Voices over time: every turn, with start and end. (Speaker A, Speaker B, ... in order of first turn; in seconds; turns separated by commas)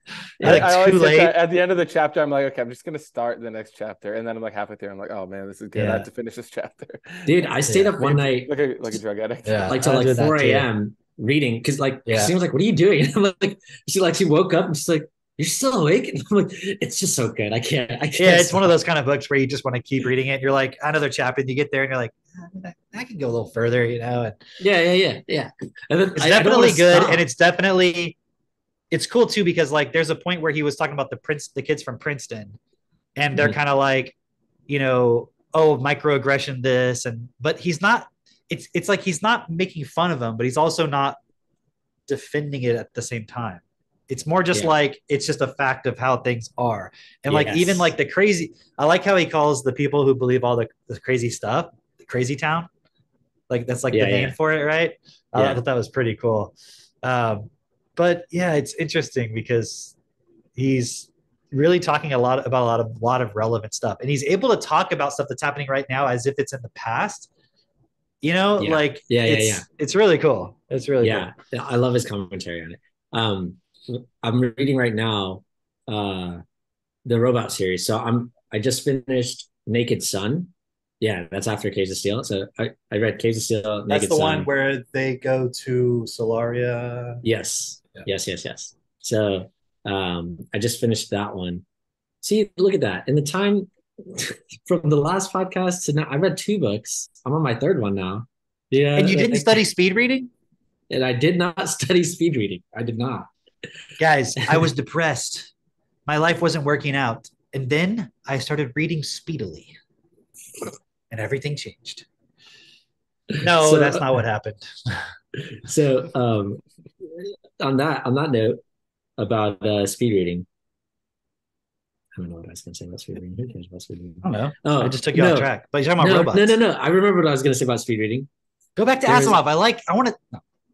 Speaker A: 0.4-0.7, Speaker B: 0.4-1.3, Speaker C: 0.4-7.5, Speaker B: 5.7-6.1, Speaker A: 7.2-8.5, Speaker B: 7.7-8.0, Speaker C: 8.0-9.7, Speaker B: 9.4-10.7, Speaker A: 9.7-18.8, Speaker B: 12.1-12.3, Speaker B: 18.2-24.4, Speaker A: 24.6-27.2, Speaker B: 26.1-28.1, Speaker B: 28.9-32.6, Speaker B: 33.1-34.1, Speaker B: 34.7-41.2, Speaker B: 42.1-52.7, Speaker A: 47.3-47.9, Speaker B: 53.5-59.9, Speaker A: 53.9-54.4, Speaker A: 55.3-55.6, Speaker B: 60.5-67.3, Speaker B: 68.2-71.3, Speaker A: 68.6-69.7, Speaker A: 71.0-76.4, Speaker A: 77.0-84.5, Speaker B: 83.9-87.2, Speaker A: 87.2-91.6, Speaker A: 92.2-99.6, Speaker B: 98.9-100.3, Speaker A: 100.9-103.3, Speaker B: 104.0-105.5, Speaker A: 104.4-104.6, Speaker B: 106.0-109.7, Speaker B: 111.1-112.0, Speaker A: 113.3-114.2, Speaker B: 113.4-115.1, Speaker A: 115.3-118.6, Speaker A: 119.2-120.5, Speaker A: 122.2-128.3, Speaker B: 124.2-126.6, Speaker B: 128.8-130.4, Speaker A: 129.1-129.4